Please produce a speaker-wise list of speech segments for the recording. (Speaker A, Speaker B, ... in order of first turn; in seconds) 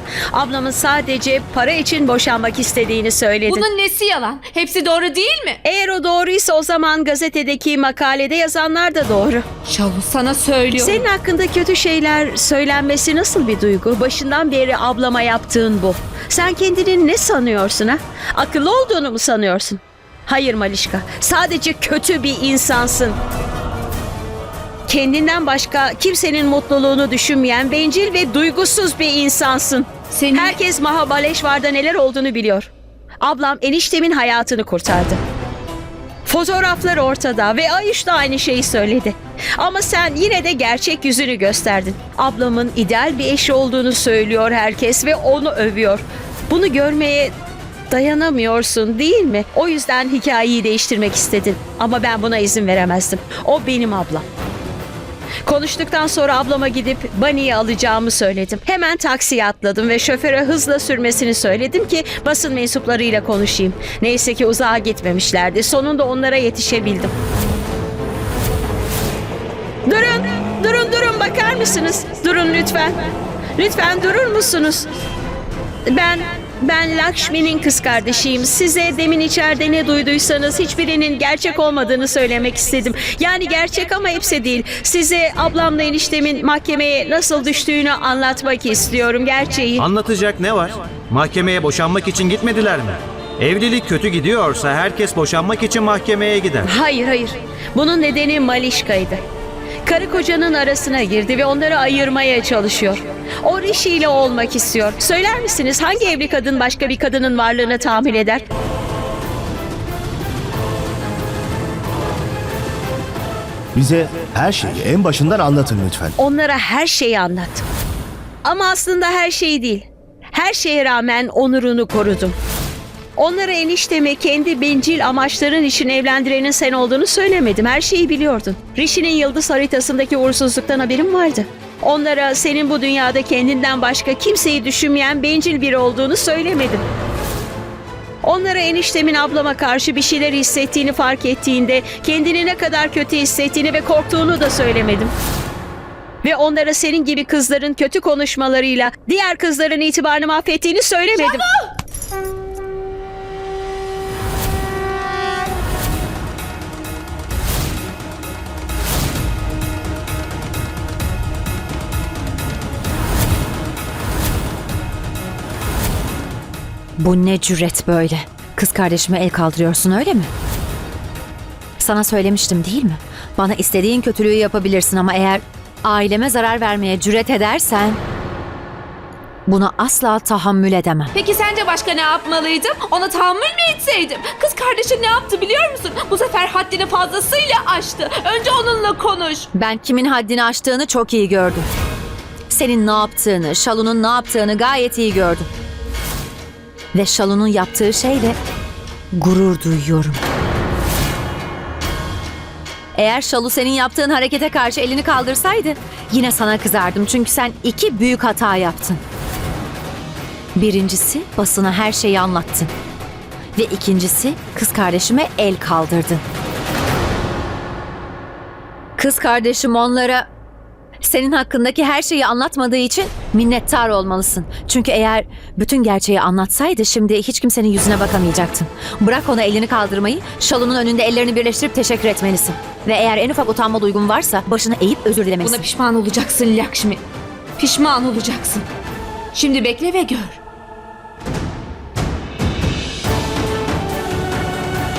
Speaker A: 0.3-3.7, 5.6-9.4, 10.8-23.2, 24.9-32.7, 33.2-35.2, 36.3-47.3, 47.9-54.3, 55.5-67.1, 69.9-75.0, 75.9-89.8, 96.7-99.2, 99.9-108.5, 116.2-117.6, 118.5-122.4, 123.2-136.9, 138.2-145.1, 146.2-151.5
Speaker B: 3.5-5.6, 9.7-11.1, 30.1-30.6, 151.2-151.7, 181.2-189.5, 235.4-237.0, 237.6-238.7, 239.3-240.4
Speaker C: 89.8-96.7
Speaker D: 113.8-116.1
Speaker E: 167.0-170.3, 171.8-178.0, 179.5-181.1, 189.5-191.7, 192.5-195.5, 196.9-198.4, 199.1-200.2, 202.9-209.0, 210.6-212.7, 213.6-216.2, 219.0-220.3, 221.0-235.7